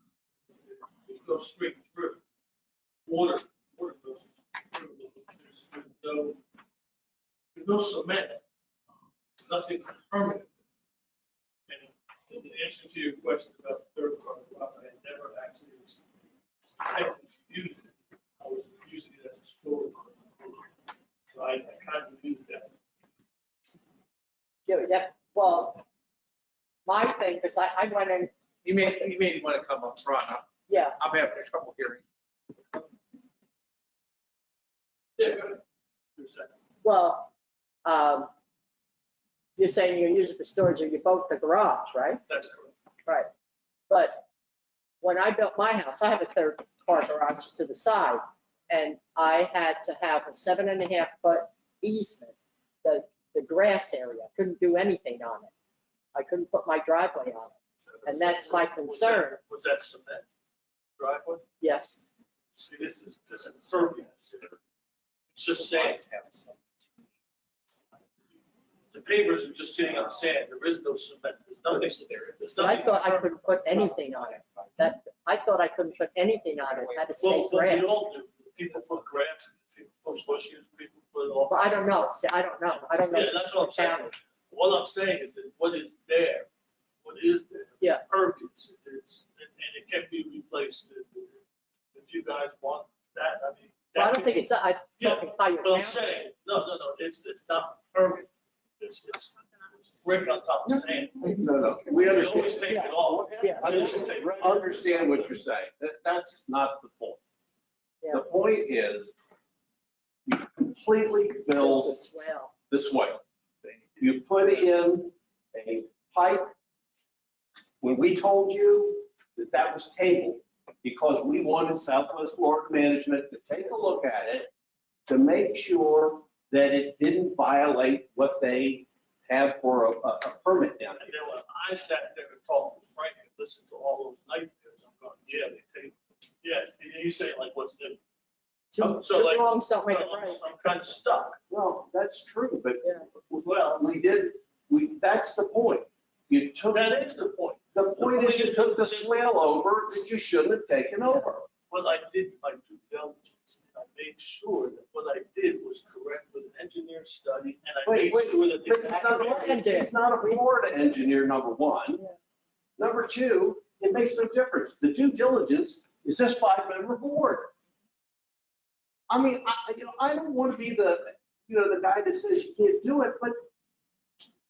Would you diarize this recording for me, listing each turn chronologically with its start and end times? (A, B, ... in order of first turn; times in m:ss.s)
0:00.5-0:02.2 A
0:03.1-0:06.4 A
0:07.5-0:08.4 A
0:09.4-0:10.5 A
0:11.7-0:16.1 A
0:16.8-0:20.7 A
0:21.3-0:22.7 A
0:24.7-0:25.8 B
0:26.8-0:28.3 B
0:28.6-0:32.0 C
0:30.7-0:31.0 B
0:35.2-0:35.6 A
0:36.2-0:36.5 A
0:36.8-0:37.3 B
0:37.8-0:38.3 B
0:39.6-0:42.2 B
0:42.3-0:42.7 A
0:43.9-0:44.2 B
0:45.0-0:55.5 B
0:56.2-0:57.5 B
0:57.8-1:00.3 A
0:58.0-0:59.4 B
1:01.0-1:01.4 A
1:01.6-1:02.0 B
1:02.5-1:04.6 A
1:05.3-1:06.0 A
1:05.8-1:06.5 C
1:08.9-1:13.4 A
1:11.9-1:12.3 C
1:12.6-1:18.0 B
1:17.2-1:22.1 A
1:21.5-1:24.2 B
1:23.1-1:26.5 A
1:27.0-1:31.4 A
1:31.9-1:38.3 A
1:34.0-1:36.0 B
1:38.8-1:45.4 A
1:40.7-1:47.2 D
1:42.7-1:43.7 B
1:48.1-1:49.1 D
1:50.3-1:51.9 D
1:51.6-1:52.5 B
1:52.7-1:53.2 D
1:54.0-1:56.5 D
1:57.8-2:04.5 D
2:05.1-2:11.2 D
2:11.0-2:18.0 A
2:18.7-2:20.4 B
2:18.8-2:21.4 A
2:21.5-2:26.9 D
2:23.4-2:23.8 A
2:26.7-2:29.4 A
2:27.7-2:31.5 D
2:31.7-2:39.7 A
2:37.8-2:42.0 D
2:39.0-2:40.4 B
2:42.8-2:47.5 D
2:49.1-2:53.4 D